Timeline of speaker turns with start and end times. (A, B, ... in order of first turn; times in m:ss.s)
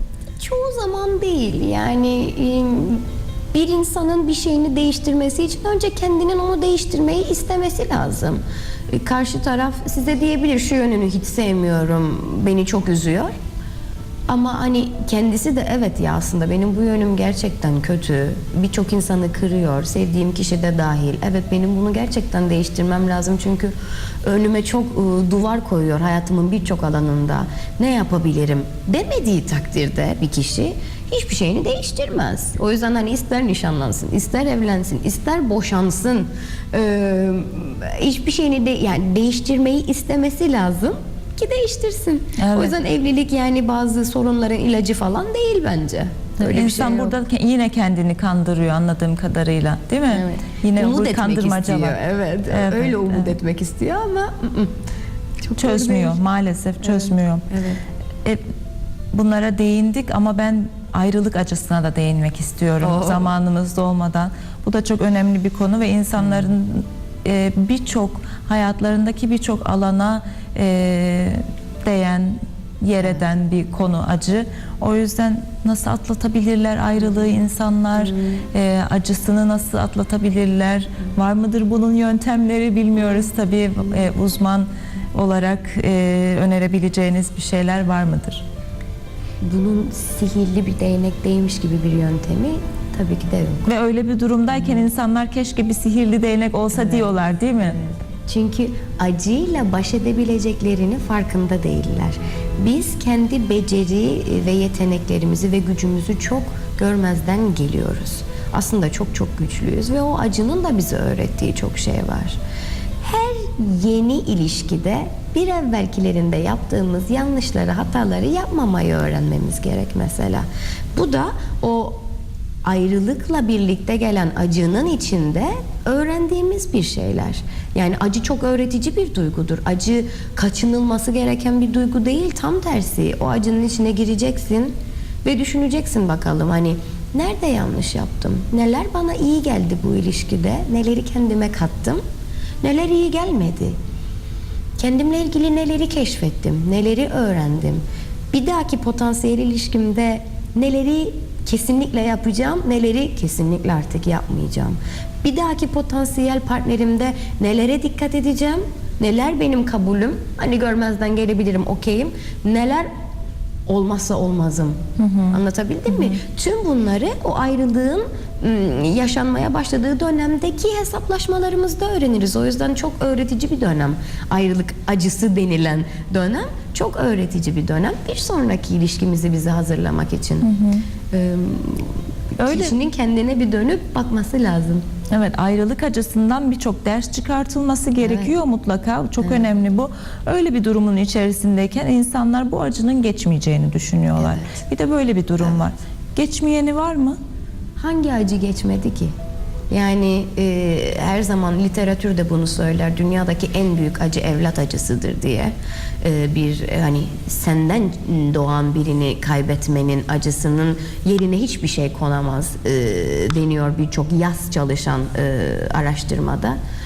0:00.4-0:13.3 A
0:14.3-0:23.7 A
0:24.2-0:47.2 A
0:42.4-0:42.7 B
0:46.4-0:52.0 B
0:50.1-0:54.7 A
0:52.5-0:53.3 B
0:55.4-0:56.2 A
0:55.6-0:57.5 B
0:56.8-0:57.8 A
0:59.1-1:28.4 B
1:02.8-1:03.3 A
1:18.0-1:18.4 A
1:29.4-1:33.6 A
1:33.6-1:37.8 B
1:36.7-1:37.1 A
1:37.8-1:52.4 A
1:53.0-2:02.0 A
2:02.6-2:22.0 A
2:22.6-2:23.7 A
2:24.8-2:42.9 A
2:43.7-2:44.8 A
2:45.0-2:45.4 B
2:45.3-3:00.4 A
2:45.9-2:46.2 B
3:00.4-3:00.8 B
3:01.1-3:04.8 A
3:02.4-3:02.7 B
3:05.1-3:17.2 B
3:08.0-3:08.4 A
3:14.2-3:14.6 A
3:17.8-3:19.1 A
3:19.7-3:36.6 A